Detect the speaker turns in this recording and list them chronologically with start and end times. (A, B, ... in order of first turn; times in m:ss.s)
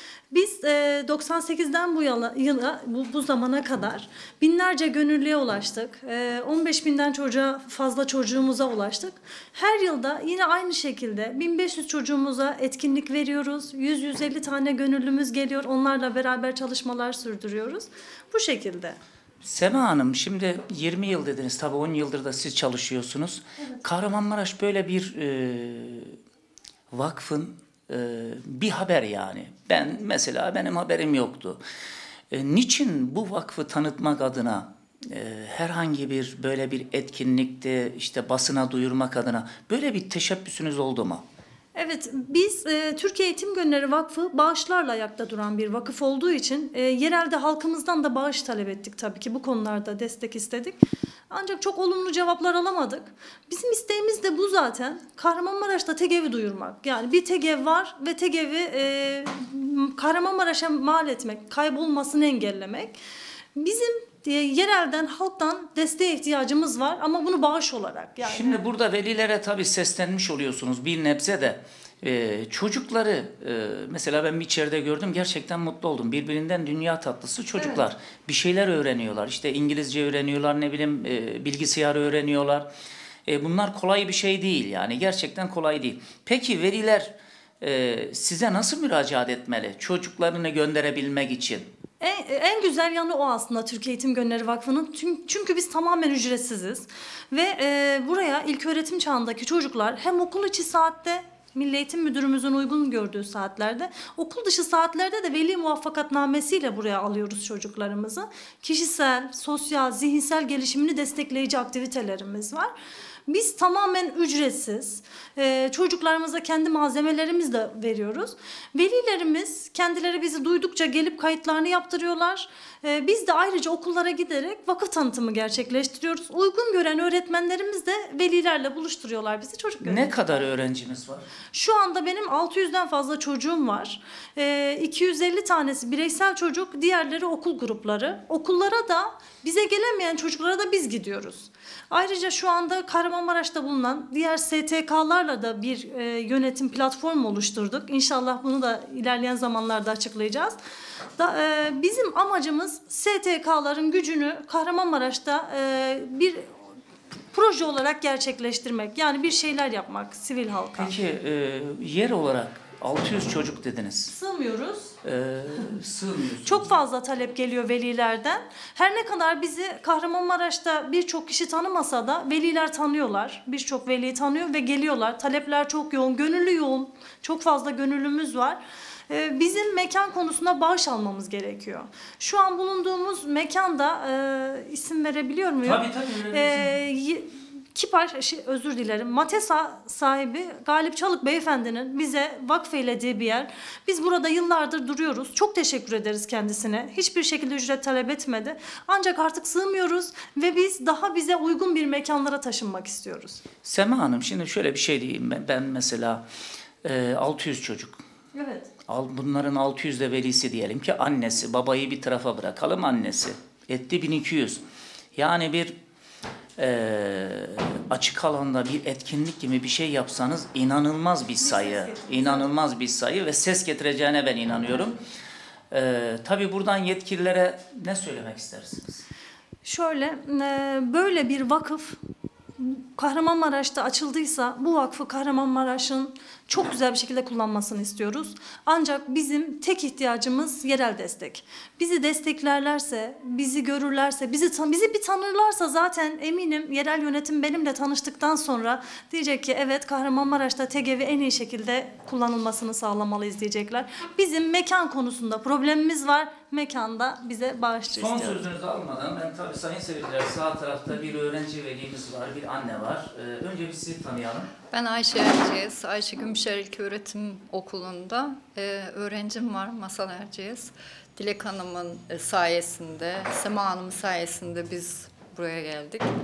0:00.3-0:19.0 A
0:19.4-0:26.2 B
0:26.9-0:31.6 B
0:32.3-0:41.2 B
0:41.7-1:03.0 A
1:03.6-1:08.6 A
1:08.2-1:22.7 B
1:17.6-1:17.8 A
1:23.3-1:31.7 B
1:32.0-1:52.7 A
1:53.3-2:10.3 A
2:09.8-2:11.3 B
2:11.5-2:30.6 A
2:31.2-2:36.5 A
2:37.3-2:40.9 A
2:40.7-2:44.1 B
2:44.1-2:44.9 A
2:45.0-2:46.7 B
2:46.4-3:23.4 A
3:05.6-3:06.7 B
3:23.6-3:26.2 B
3:26.8-3:28.0 B
3:28.3-3:28.7 A
3:28.9-3:34.6 B
3:35.2-3:35.7 B
3:36.6-3:45.0 B
3:41.4-3:42.5 A
3:45.7-3:49.0 B
3:49.6-3:52.0 A
3:52.6-4:18.5 A
4:17.9-4:24.5 B
4:24.7-4:36.1 C